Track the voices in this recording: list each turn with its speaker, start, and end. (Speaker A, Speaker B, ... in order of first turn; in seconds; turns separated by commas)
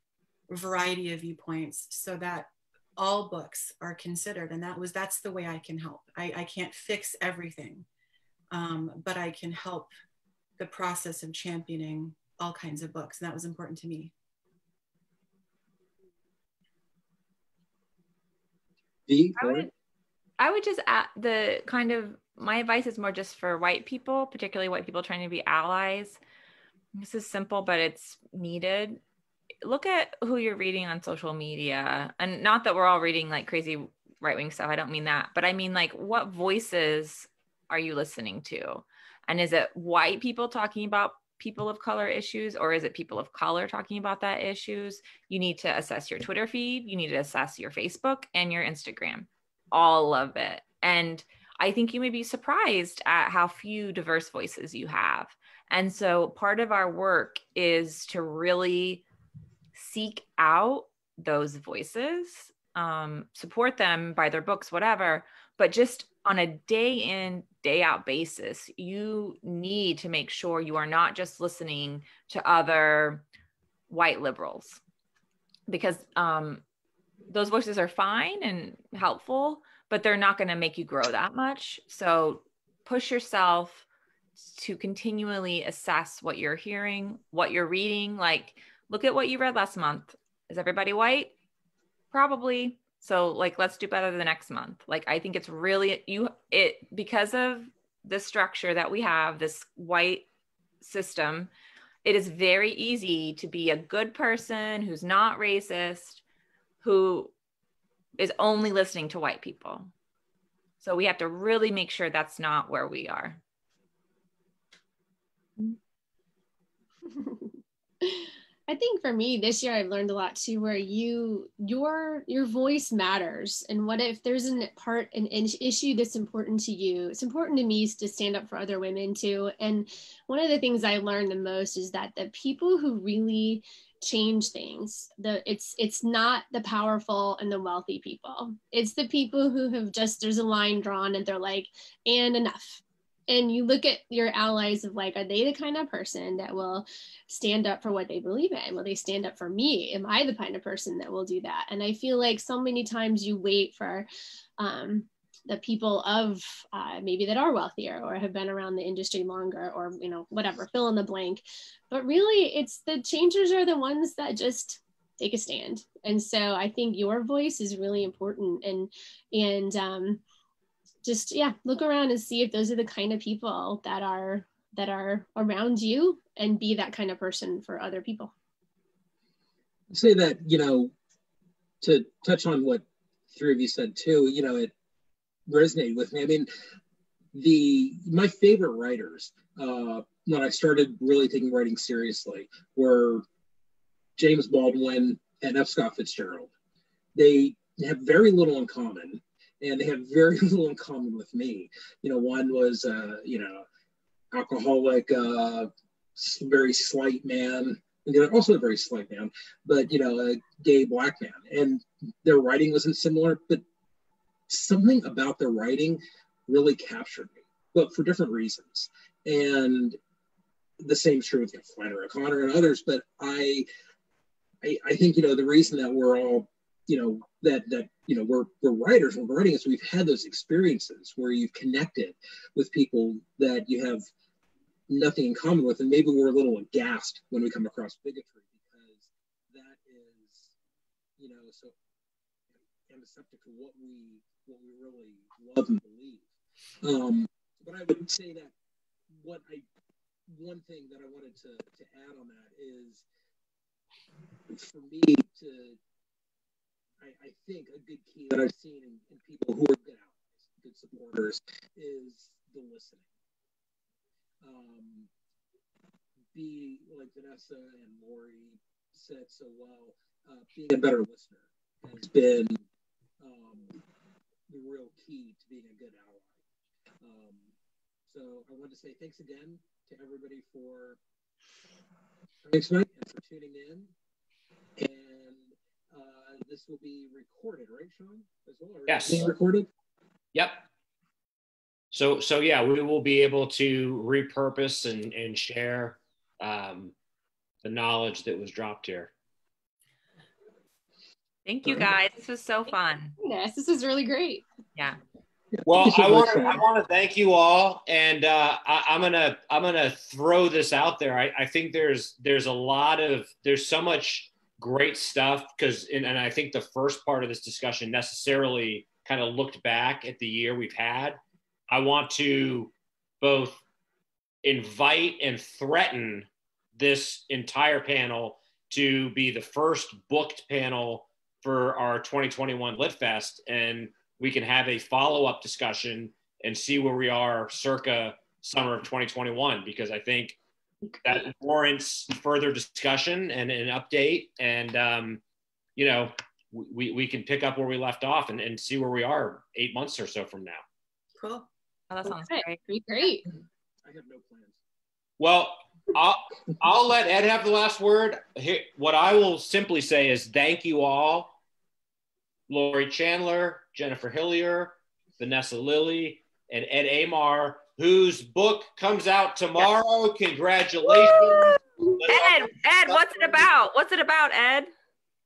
Speaker A: 0.5-7.9, Speaker A: 8.5-9.9, Speaker A: 10.6-14.1, Speaker B: 19.1-19.7, Speaker C: 19.4-19.7, Speaker C: 20.4-26.2, Speaker C: 27.0-29.0, Speaker C: 29.6-59.0, Speaker C: 59.8-73.2, Speaker C: 73.9-74.8, Speaker C: 75.7-76.6, Speaker C: 77.3-83.9, Speaker C: 84.4-91.3, Speaker C: 92.1-100.3, Speaker C: 100.8-101.5, Speaker C: 102.0-106.2, Speaker C: 106.8-107.3, Speaker C: 108.2-109.9, Speaker C: 110.8-113.4, Speaker D: 117.1-170.2, Speaker D: 171.0-178.3, Speaker B: 179.9-180.9, Speaker B: 181.8-184.7, Speaker B: 185.5-186.5, Speaker B: 187.3-193.2, Speaker B: 194.2-196.5, Speaker B: 197.2-203.7, Speaker B: 204.3-213.6, Speaker B: 214.5-220.0, Speaker B: 220.8-223.7, Speaker B: 224.6-234.1, Speaker B: 234.9-240.5, Speaker B: 241.2-241.8, Speaker B: 242.9-246.3, Speaker B: 246.8-248.5, Speaker B: 249.2-249.7, Speaker B: 250.3-253.0, Speaker B: 254.5-255.8, Speaker B: 257.0-263.1, Speaker B: 264.4-265.1, Speaker B: 266.3-272.6, Speaker B: 273.2-273.8, Speaker B: 274.5-276.3, Speaker B: 277.0-277.5, Speaker B: 278.1-281.0, Speaker B: 282.4-283.9, Speaker B: 284.8-289.7, Speaker E: 288.9-289.3, Speaker E: 290.4-290.7, Speaker E: 291.9-296.9, Speaker E: 297.6-299.1, Speaker C: 301.5-303.2, Speaker D: 303.2-304.4, Speaker B: 305.6-306.6, Speaker E: 305.7-323.6, Speaker E: 324.4-340.4, Speaker E: 341.0-345.2, Speaker E: 345.8-350.6, Speaker A: 351.2-351.5, Speaker C: 351.9-352.6, Speaker D: 352.1-353.3, Speaker B: 353.9-354.6, Speaker E: 355.2-361.4, Speaker E: 362.5-373.1, Speaker D: 371.0-371.9, Speaker C: 372.1-374.7